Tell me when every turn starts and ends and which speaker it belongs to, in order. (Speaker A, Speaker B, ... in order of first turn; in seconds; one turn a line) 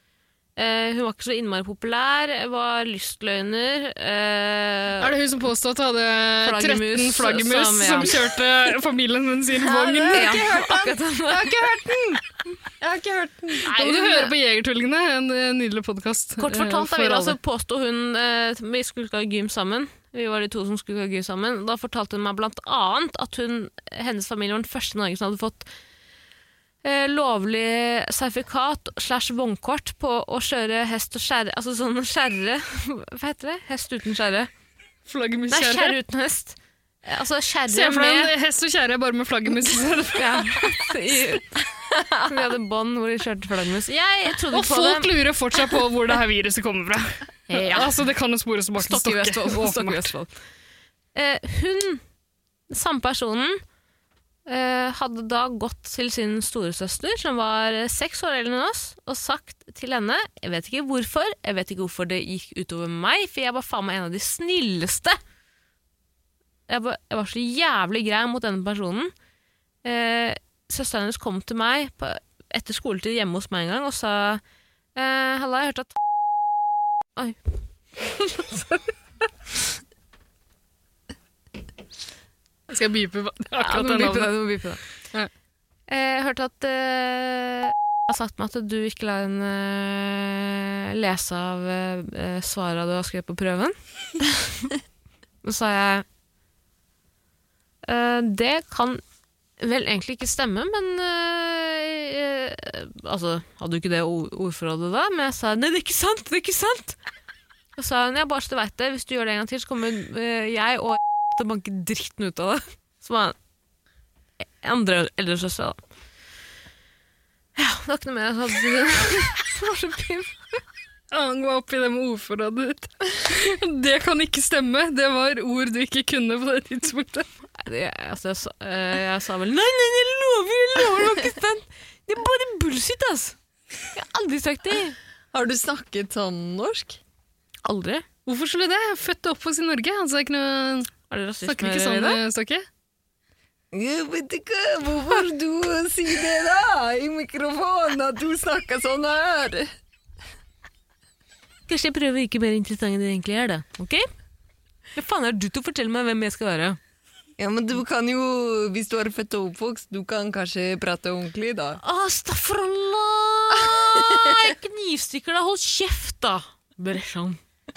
Speaker A: 0.6-5.1
Speaker B: 5.0-10.4
Speaker A: 6.4-8.3
Speaker C: 9.6-13.7
Speaker A: 10.1-11.5
Speaker A: 13.6-14.3
Speaker B: 13.6-17.4
Speaker A: 16.4-25.7
Speaker A: 26.8-34.5
Speaker B: 35.1-35.9
Speaker A: 35.5-38.3
Speaker B: 37.7-40.8
Speaker A: 40.1-41.6
Speaker C: 41.9-42.2
Speaker A: 42.2-45.1
Speaker B: 44.5-50.1
Speaker A: 47.5-47.9
Speaker A: 48.8-50.3
Speaker A: 51.1-52.0
Speaker A: 52.7-53.6
Speaker A: 54.5-65.2
Speaker A: 66.7-69.1
Speaker A: 69.8-74.4
Speaker A: 75.0-75.9
Speaker A: 78.0-78.9
Speaker B: 82.7-84.3
Speaker A: 83.6-84.8
Speaker A: 85.9-93.8
Speaker A: 95.4-96.0
Speaker A: 97.8-99.0
Speaker A: 99.6-107.0
Speaker A: 107.8-113.3
Speaker A: 114.4-115.8
Speaker A: 117.5-120.6
Speaker B: 121.1-127.3
Speaker A: 127.6-133.3
Speaker A: 133.9-134.9
Speaker C: 135.3-137.0
Speaker A: 137.6-138.0
Speaker B: 138.2-140.9
Speaker A: 141.1-142.2
Speaker B: 141.4-142.6
Speaker C: 143.7-149.7
Speaker A: 151.7-154.1
Speaker A: 154.9-156.8
Speaker C: 157.4-161.8
Speaker A: 161.8-167.4
Speaker C: 163.5-164.3